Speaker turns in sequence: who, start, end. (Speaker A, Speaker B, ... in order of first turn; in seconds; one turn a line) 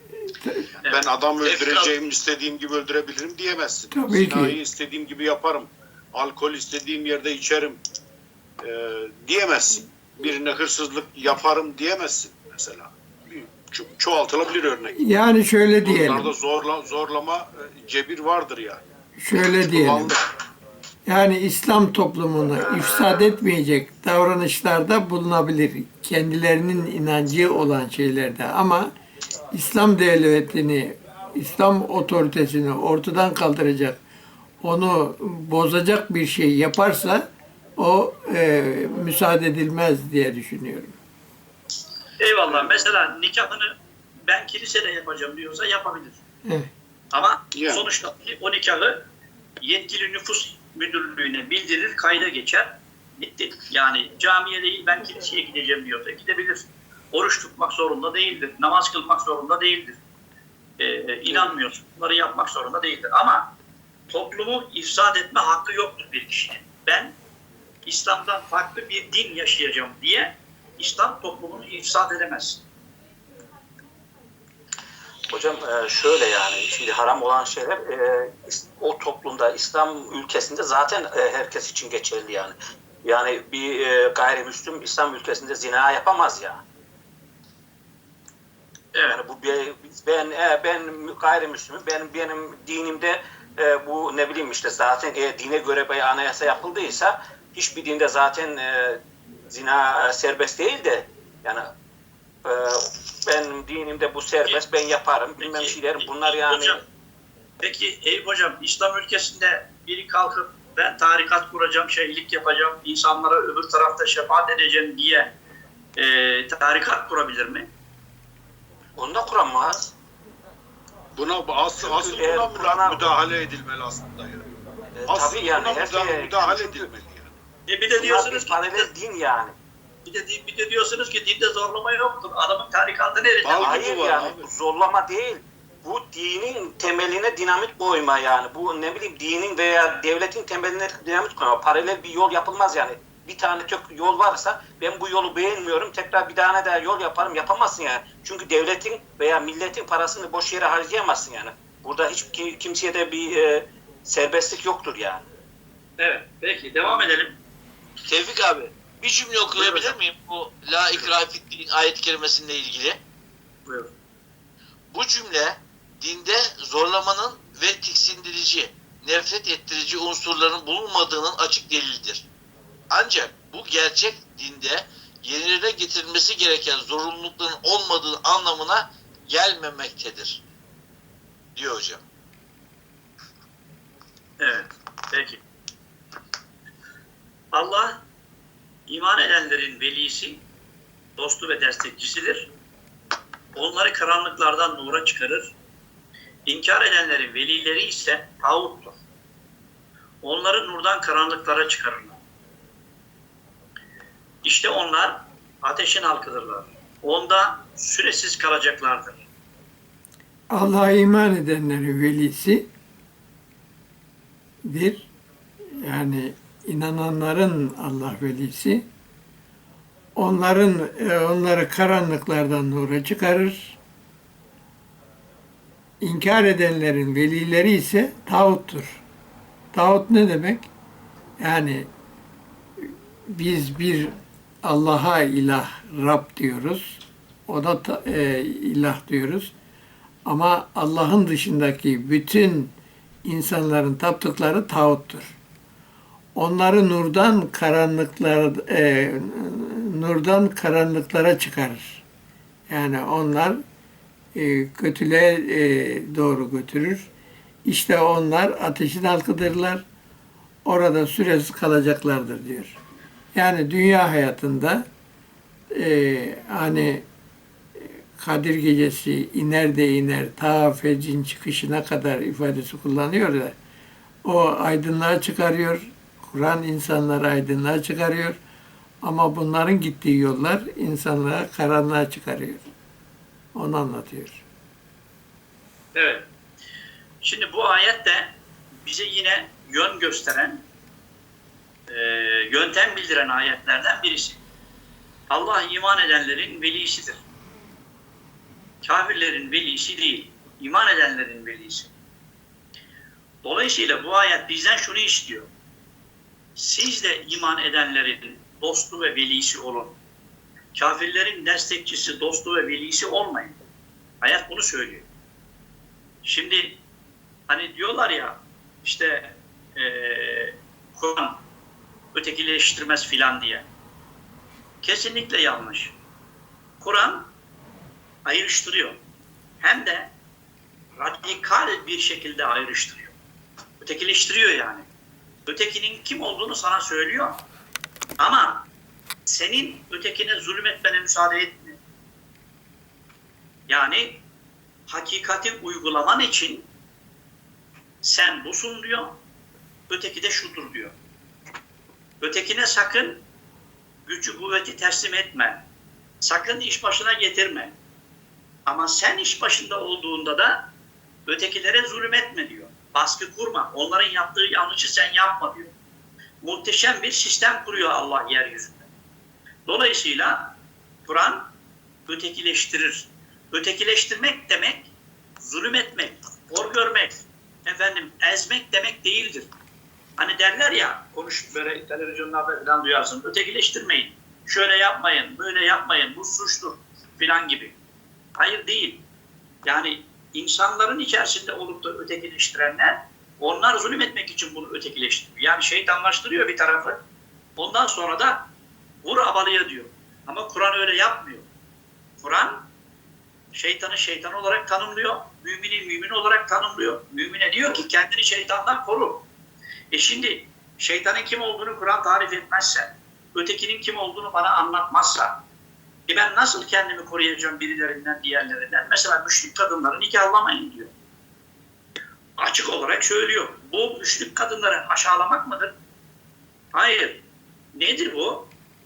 Speaker A: 0.2-0.7
Speaker B: 0.9-7.8
Speaker C: 1.4-1.9
Speaker A: 3.9-4.6
Speaker B: 8.6-15.0
Speaker A: 15.0-16.3
Speaker B: 15.8-18.8
Speaker A: 19.2-20.1
Speaker B: 19.4-20.2
Speaker A: 21.1-28.9
Speaker D: 22.8-23.1
Speaker A: 29.5-34.0
Speaker A: 34.6-37.2
Speaker A: 37.8-40.9
Speaker D: 42.2-43.7
Speaker D: 44.3-46.2
Speaker D: 47.1-49.0
Speaker B: 47.5-47.8
Speaker D: 49.6-60.0
Speaker D: 60.8-63.5
Speaker D: 64.1-67.2
Speaker D: 67.8-72.6
Speaker E: 75.3-86.6
Speaker D: 88.9-89.2
Speaker E: 89.3-101.7
Speaker E: 102.4-106.7
Speaker D: 105.4-106.8
Speaker D: 107.6-115.3
Speaker D: 116.0-117.7
Speaker E: 119.0-119.9
Speaker B: 121.2-124.5
Speaker E: 121.9-123.0
Speaker B: 125.1-127.3
Speaker E: 125.1-126.8
Speaker D: 127.7-128.9
Speaker E: 128.2-129.5
Speaker D: 130.0-133.8
Speaker B: 133.4-134.5
Speaker E: 133.8-155.2
Speaker D: 156.0-157.3
Speaker C: 158.1-163.0
Speaker D: 159.5-159.9
Speaker D: 163.7-163.9
Speaker C: 164.9-172.2
Speaker C: 172.9-180.4
Speaker C: 181.6-182.0
Speaker D: 184.4-185.4
Speaker D: 187.5-188.0
Speaker D: 188.9-190.4
Speaker D: 191.2-192.5
Speaker D: 193.6-195.5
Speaker D: 196.4-199.0
Speaker D: 200.2-202.2
Speaker D: 204.4-209.3
Speaker A: 210.5-212.7
Speaker A: 214.6-215.1
Speaker A: 215.8-218.8
Speaker A: 220.2-223.8
Speaker A: 226.0-229.0
Speaker A: 229.7-230.7
Speaker A: 231.4-231.9
Speaker A: 232.8-236.8
Speaker A: 237.5-239.5
Speaker A: 240.3-242.7
Speaker A: 243.2-245.3
Speaker A: 246.3-252.0
Speaker A: 252.7-253.6
Speaker A: 254.3-257.1
Speaker A: 257.6-259.8
Speaker A: 260.6-262.8
Speaker A: 263.3-264.9
Speaker A: 265.8-267.1
Speaker A: 267.8-273.5
Speaker A: 274.2-278.4
Speaker A: 279.0-282.6
Speaker A: 283.5-284.4
Speaker D: 285.9-286.3
Speaker D: 287.2-290.6
Speaker D: 291.9-294.4
Speaker D: 295.3-297.2
Speaker D: 298.8-301.9
Speaker D: 303.4-305.5
Speaker D: 306.6-310.0
Speaker D: 310.7-313.6
Speaker D: 314.2-315.1
Speaker D: 316.2-316.8
Speaker D: 317.5-321.4
Speaker D: 322.1-323.7
Speaker D: 324.8-326.0
Speaker D: 326.8-327.3
Speaker D: 328.2-329.0
Speaker D: 329.6-330.1
Speaker D: 330.9-333.1
Speaker D: 333.8-334.8
Speaker D: 335.5-337.4
Speaker D: 338.2-338.7
Speaker D: 339.2-341.8
Speaker D: 343.7-344.2
Speaker D: 344.9-346.7
Speaker D: 348.0-349.1
Speaker D: 349.9-350.9
Speaker D: 352.2-353.2
Speaker D: 354.1-355.6
Speaker D: 356.2-357.7
Speaker D: 358.7-360.7
Speaker D: 361.3-365.7
Speaker D: 366.4-368.9
Speaker D: 369.6-371.5
Speaker D: 372.1-379.5
Speaker D: 380.2-387.8
Speaker D: 388.4-389.1
Speaker D: 389.6-397.0
Speaker D: 397.6-398.5
Speaker D: 399.0-401.5
Speaker D: 402.2-402.7
Speaker D: 403.5-409.2
Speaker D: 409.9-415.4
Speaker D: 416.1-420.9
Speaker D: 422.4-425.7
Speaker D: 426.7-428.5